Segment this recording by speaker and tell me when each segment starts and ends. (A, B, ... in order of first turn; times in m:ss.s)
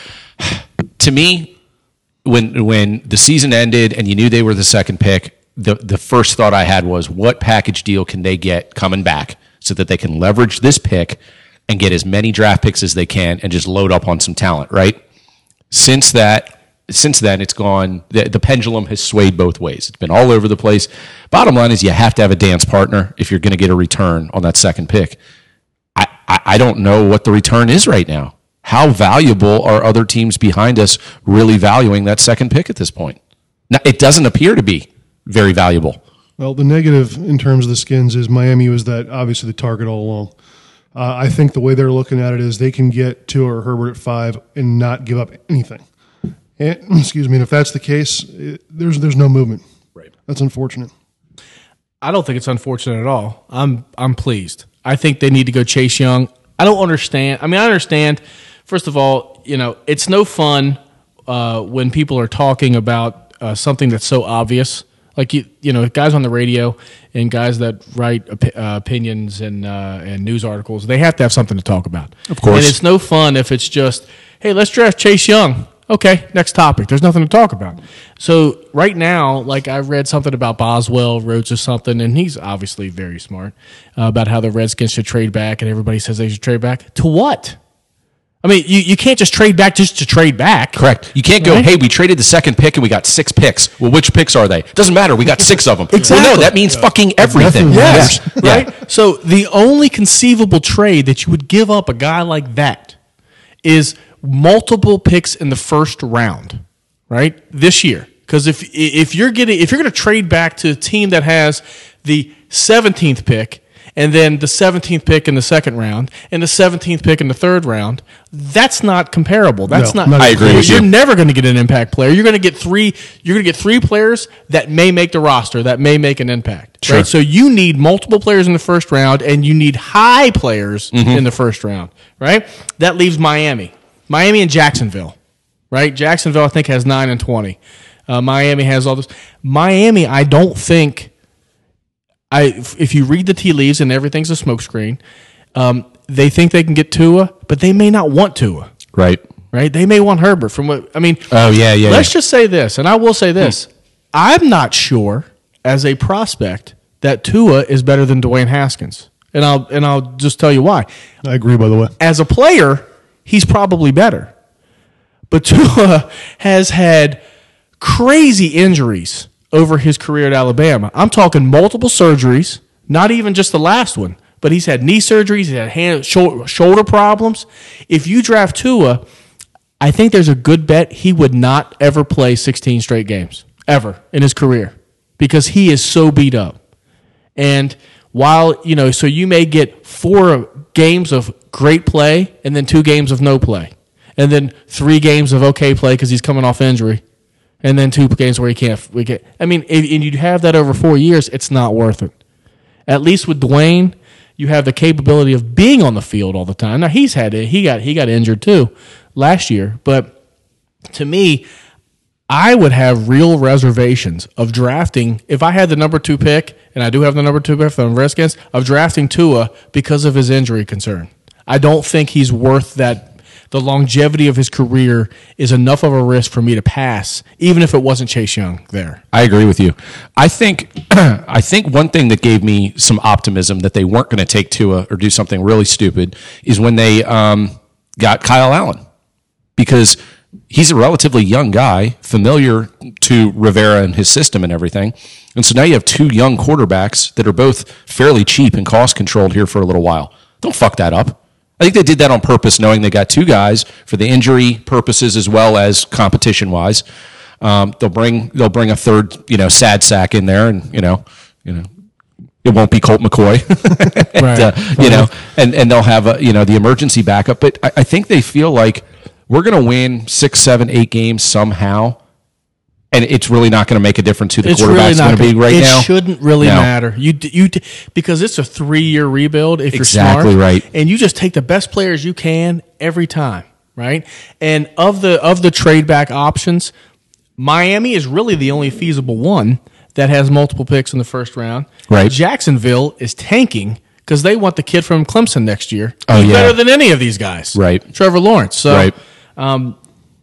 0:00.4-0:01.5 A
0:02.2-0:15.0 A
0:15.7-0:25.2 A
0:26.0-0:33.2 A
0:33.7-0:36.0 A
0:36.4-0:40.3 B
0:41.0-0:45.8 B
0:46.6-0:49.6 B
0:50.3-0:50.9 B
0:52.0-1:27.6 C
1:12.3-1:12.8 A
1:28.4-1:30.8 C
1:30.8-1:38.7 A
1:31.4-1:31.7 C
1:35.9-1:36.6 C
1:36.8-1:38.4 B
1:37.7-1:43.0 C
1:43.6-2:15.2 C
1:59.7-2:00.8 B
2:00.2-2:00.9 A
2:10.9-2:11.2 A
2:15.7-2:17.6 C
2:18.1-2:21.1 C
2:22.3-2:25.0 C
2:25.6-2:28.7 C
2:29.0-2:29.2 A
2:29.5-2:31.3 C
2:31.3-2:32.1 A
2:31.8-2:40.9 C
2:41.2-2:41.9 B
2:42.0-2:44.3 C
2:45.3-2:47.2 C
2:47.8-2:59.0 C
2:59.8-3:06.6 C
3:07.4-3:17.0 C
3:17.6-3:22.1 C
3:22.9-3:30.1 C
3:30.9-3:31.4 C
3:32.3-3:49.0 C
3:49.1-3:58.8 A
3:59.6-4:00.0 A
4:00.5-4:16.8 A
4:17.4-4:21.7 A
4:22.4-4:32.0 A
4:24.2-4:25.1 C
4:32.9-4:35.9 A
4:34.4-4:46.7 C
4:36.4-4:36.7 A
4:39.7-4:40.6 A
4:47.4-4:59.8 C
4:51.9-4:52.1 A
4:56.1-4:56.6 A
4:57.5-4:57.8 A
4:58.7-4:58.9 A